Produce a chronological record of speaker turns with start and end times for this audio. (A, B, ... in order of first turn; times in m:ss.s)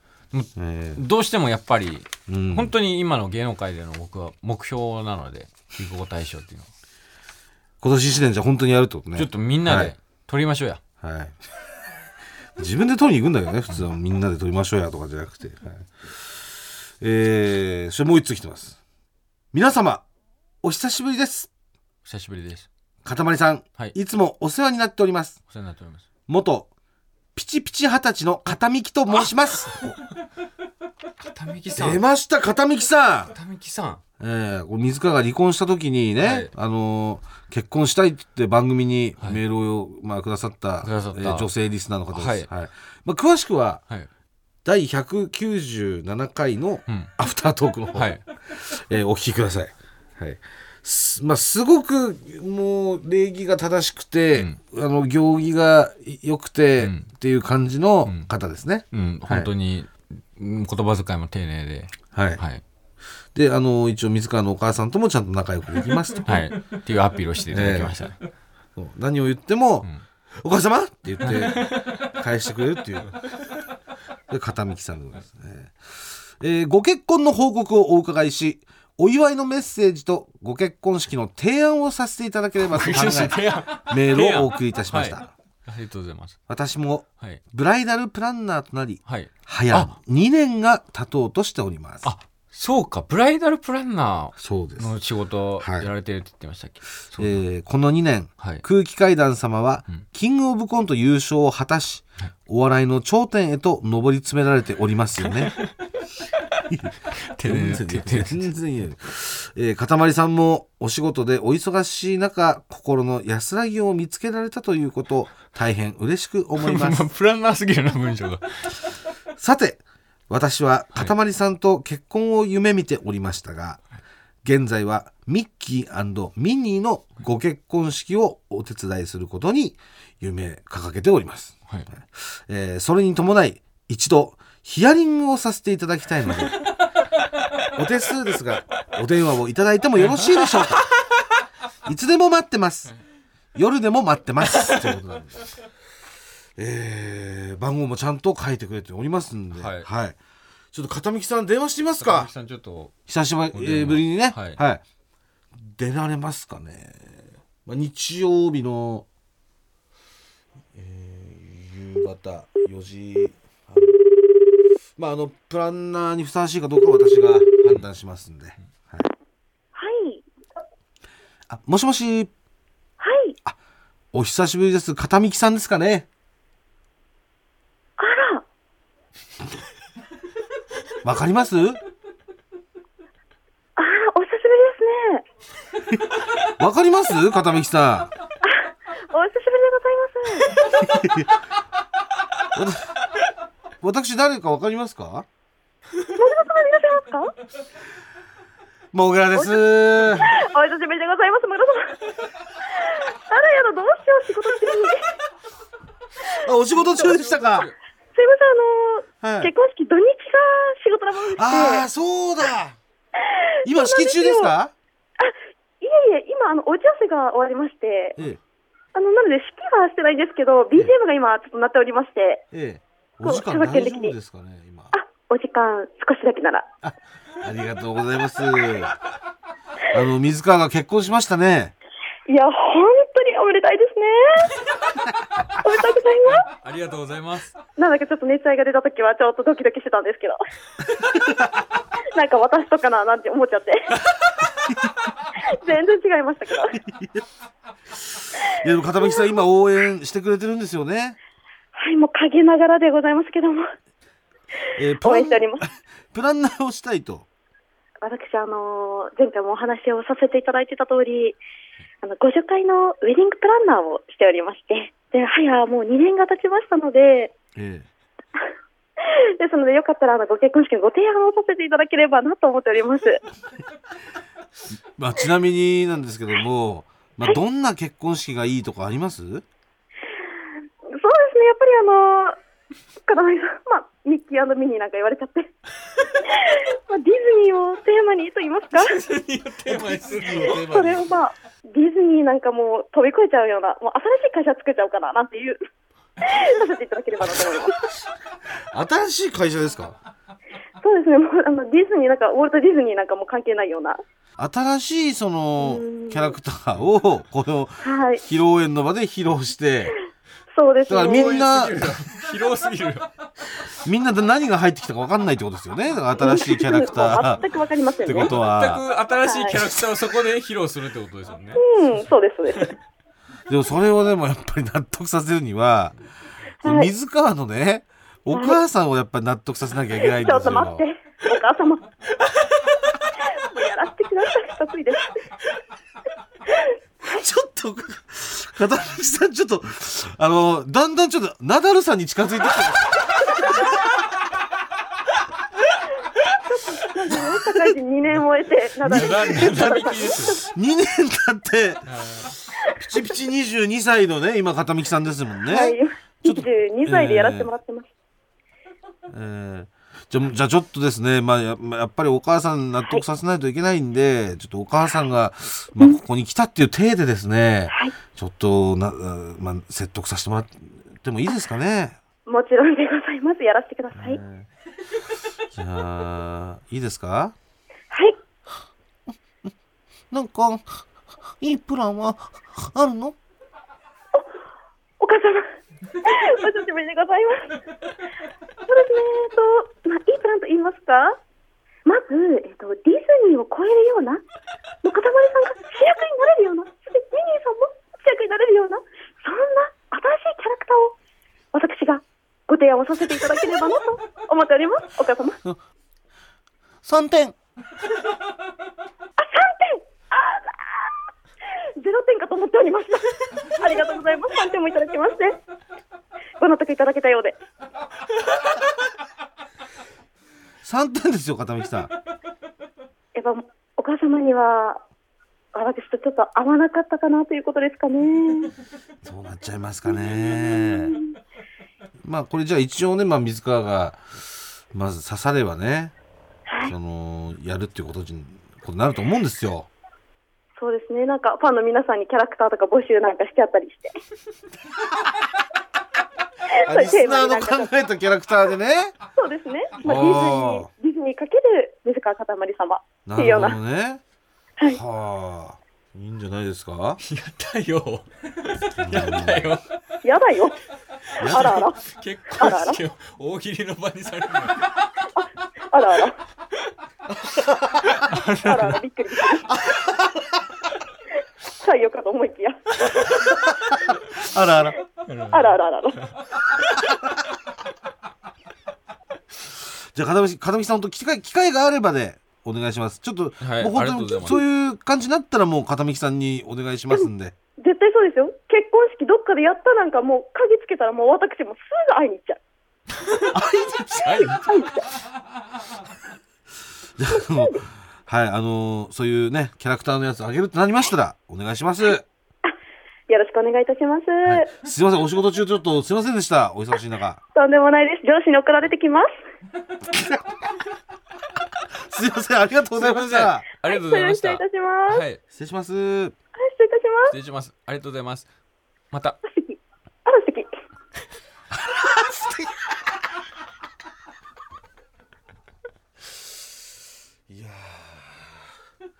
0:00.3-0:06.7 A
0:00.6-0:01.0 B
0:02.3-0:02.7 B
0:07.8-0:09.9 B
0:09.1-0:10.8 A
0:11.0-0:11.4 B
0:12.6-0:18.8 B
0:19.5-0:20.0 B
0:20.6-0:21.5 B
0:22.0-0:22.7 A
0:23.0-0:25.4 B
0:25.5-0:26.0 A
0:26.3-0:26.7 B
0:27.3-0:29.9 B
0:29.1-0:30.0 A
0:31.2-0:32.0 A
0:31.7-0:33.3 B
0:33.3-0:34.0 A
0:34.2-0:43.8 B
0:36.2-0:36.5 A
0:40.8-0:41.5 A
0:42.1-0:42.5 A
0:44.6-0:59.5 B
0:47.9-0:48.2 A
0:56.8-0:57.1 A
0:58.0-0:58.3 A
0:58.9-1:02.6 A
1:02.1-1:02.4 B
1:03.3-1:06.5 B
1:06.2-1:08.2 A
1:07.5-1:08.0 B
1:08.8-1:13.2 B
1:11.2-1:12.1 A
1:14.3-1:25.3 B
1:22.6-1:26.4 A
1:26.5-1:32.1 B
1:29.0-1:29.9 A
1:32.0-1:37.4 A
1:34.4-1:34.9 B
1:35.6-1:35.9 B
1:37.2-1:45.6 B
1:45.2-1:45.8 A
1:46.5-1:48.5 A
1:47.4-1:57.0 B
1:56.6-1:58.8 A
1:59.4-2:03.8 B
2:04.4-2:16.6 B
2:17.7-2:20.9 B
2:20.0-2:20.8 A
2:21.8-2:22.9 B
2:23.5-2:25.5 B
2:24.5-2:24.8 A
2:26.6-2:30.2 B
2:29.5-2:29.9 A
2:30.7-2:32.3 B
2:32.0-2:32.9 A
2:33.1-2:34.8 B
2:33.5-2:34.6 A
2:35.6-2:39.0 B
2:40.7-2:44.0 B
2:45.0-2:49.1 B
2:49.7-2:50.2 C
2:51.5-2:52.3 B
2:53.0-2:53.4 C
2:54.1-2:56.1 B
2:58.0-2:58.4 C
3:01.0-3:01.8 B
3:03.8-3:05.2 C
3:05.9-3:08.1 B
3:08.4-3:11.1 C
3:10.8-3:11.3 B
3:12.5-3:12.9 B
3:13.8-3:15.3 B
3:16.0-3:17.3 C
3:18.9-3:20.3 B
3:19.3-3:25.1 C
3:26.2-3:27.7 B
3:26.7-3:27.8 A
3:28.1-3:31.8 C
3:29.2-3:29.5 B
3:31.4-3:32.8 B
3:33.2-3:34.5 C
3:33.6-3:34.7 B
3:35.2-3:38.2 C
3:38.9-3:42.4 C
3:42.5-3:44.9 B
3:43.2-3:44.1 C
3:44.9-3:46.7 C
3:46.8-3:48.9 B
3:49.9-3:51.7 B
3:52.3-3:54.5 C
3:54.6-3:55.0 A
3:55.6-3:56.5 C
3:56.4-3:57.5 A
3:57.8-4:00.4 C
4:01.3-4:01.6 B
4:02.0-4:03.9 C
4:04.0-4:04.5 A
4:04.5-4:05.0 B
4:05.3-4:06.8 C
4:06.7-4:07.2 B
4:07.9-4:11.2 B
4:11.8-4:13.7 C
4:14.6-4:15.6 C
4:14.8-4:17.3 B
4:18.0-4:21.4 C
4:22.0-4:27.3 C
4:27.6-4:27.9 B
4:29.0-4:33.2 C
4:35.0-4:39.4 B
4:40.9-4:42.4 C
4:43.1-4:45.5 C
4:46.2-4:49.0 C
4:48.7-4:50.5 A
4:49.6-4:51.1 B
4:50.4-4:55.6 C
4:56.2-4:57.9 C
4:58.5-5:00.0 B
5:00.8-5:04.0 C
5:04.4-5:09.9 B
5:05.6-5:06.4 C
5:07.8-5:08.2 C
5:10.5-5:11.4 C
5:10.8-5:11.9 B
5:10.9-5:13.1 A
5:13.7-5:17.4 B
5:16.2-5:18.3 C
5:18.0-5:18.8 B
5:18.2-5:21.6 A
5:19.1-5:19.6 C
5:21.6-5:22.7 C
5:23.5-5:25.9 B
5:26.6-5:30.8 B
5:26.6-5:26.9 C
5:28.3-5:28.6 C
5:30.0-5:31.9 C
5:32.2-5:32.6 A
5:33.2-5:35.2 C
5:36.5-5:36.7 C
5:37.0-5:43.8 B
5:46.2-5:50.5 C
5:48.8-5:50.4 A
5:48.9-5:57.5 B
5:51.9-5:52.3 A
5:55.4-5:57.9 C
5:59.1-6:12.0 B
6:12.3-6:14.2 C
6:13.9-6:14.5 B
6:15.5-6:17.3 B
6:17.9-6:18.2 C
6:20.1-6:20.8 B
6:21.4-6:23.2 B
6:25.0-6:27.6 C
6:28.6-6:31.2 C
6:31.8-6:34.2 C
6:34.8-6:40.9 C
6:41.5-6:45.4 C
6:46.8-6:47.4 B
6:49.2-6:51.0 C
6:51.6-6:55.4 C
6:56.4-6:57.4 C
7:00.6-7:01.9 B
7:03.1-7:04.8 C
7:05.5-7:08.5 C
7:09.0-7:11.0 B
7:10.0-7:11.2 C
7:12.0-7:15.9 B
7:16.5-7:16.7 C
7:16.6-7:19.7 B
7:20.6-7:24.0 C
7:26.5-7:27.7 C
7:26.6-7:28.9 B
7:29.2-7:33.6 C
7:29.8-7:30.7 B
7:33.0-7:34.0 B
7:34.6-7:37.0 B
7:37.0-7:39.6 A
7:38.8-7:39.5 B
7:40.0-7:40.6 C
7:41.2-7:41.6 B
7:41.2-7:44.9 A
7:41.2-7:41.8 C
7:42.4-7:42.8 C
7:45.2-7:46.2 C
7:47.1-7:48.1 B
7:47.9-7:48.8 A
7:48.4-7:49.5 C
7:49.5-7:50.4 B
7:51.6-7:53.3 C
7:52.8-7:53.1 A
7:53.1-7:54.8 B
7:55.1-7:56.2 A
7:55.3-7:56.0 C
7:56.6-7:57.2 B
7:59.4-8:07.3 B
8:03.4-8:04.4 A
8:07.6-8:12.4 C
8:13.0-8:13.3 A
8:13.3-8:14.4 B
8:14.0-8:14.7 A
8:14.3-8:14.7 C
8:17.0-8:22.0 B
8:17.1-8:17.6 C
8:23.1-8:24.5 C
8:24.4-8:27.2 B
8:27.3-8:29.1 C
8:29.8-8:30.4 B
8:31.8-8:33.4 B
8:32.8-8:35.2 A
8:33.7-8:35.0 C
8:35.3-8:36.1 B
8:36.4-8:37.1 C
8:37.1-8:38.3 A
8:38.9-8:39.2 A
8:39.2-8:40.5 C
8:41.5-8:43.0 B
8:47.3-8:48.5 B